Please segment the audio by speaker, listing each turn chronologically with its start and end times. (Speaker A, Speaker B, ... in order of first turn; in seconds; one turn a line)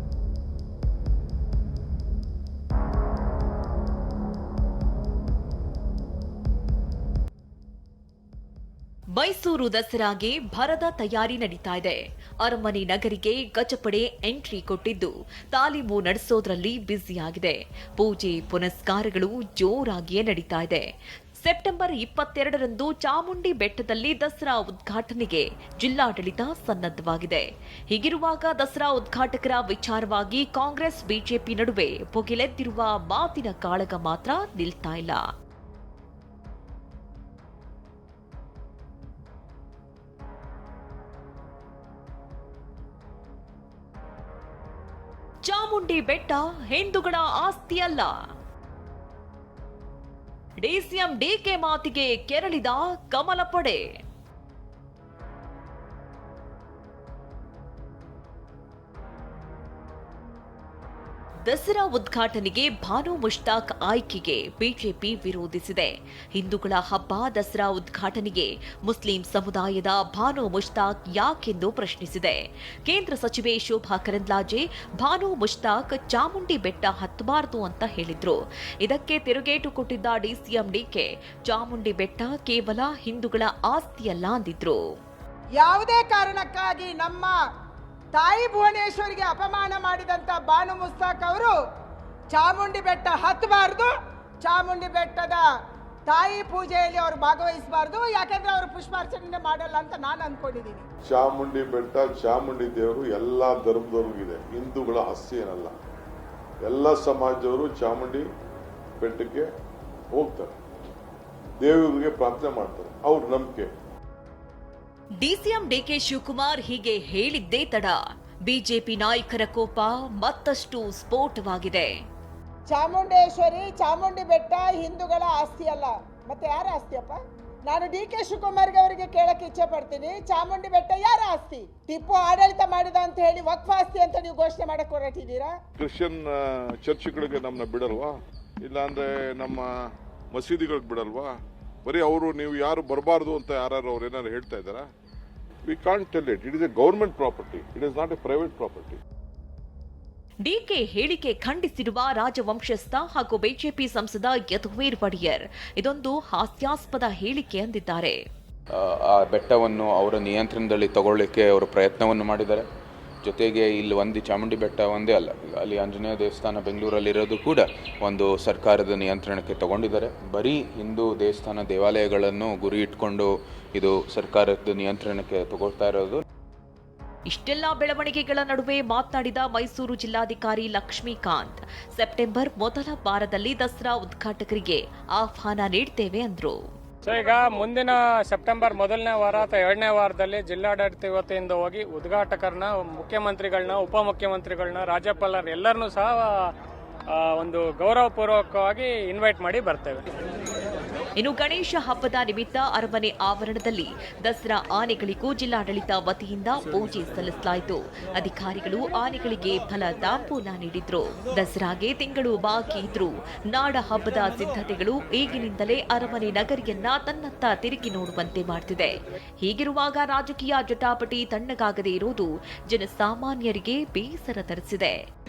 Speaker A: 9.2-20.8
Speaker A: 21.4-35.2
Speaker A: 45.4-48.1
Speaker A: 50.6-53.8
Speaker A: 61.5-84.8
Speaker B: 85.5-87.3
Speaker B: 88.1-91.5
Speaker B: 92.3-95.5
Speaker B: 96.1-100.8
Speaker C: 101.1-105.7
Speaker C: 106.6-108.2
Speaker C: 109.0-109.5
Speaker C: 110.1-110.5
Speaker C: 111.6-113.7
Speaker A: 115.2-121.9
Speaker B: 122.7-135.6
Speaker C: 135.8-138.1
Speaker C: 138.6-139.7
Speaker C: 140.3-141.3
Speaker C: 141.8-144.8
Speaker C: 145.7-149.0
Speaker A: 150.4-158.2
Speaker D: 158.7-162.7
Speaker D: 163.2-176.2
Speaker A: 177.3-186.6
Speaker E: 187.0-196.3
Speaker E: 197.1-200.0
Speaker A: 201.2-225.0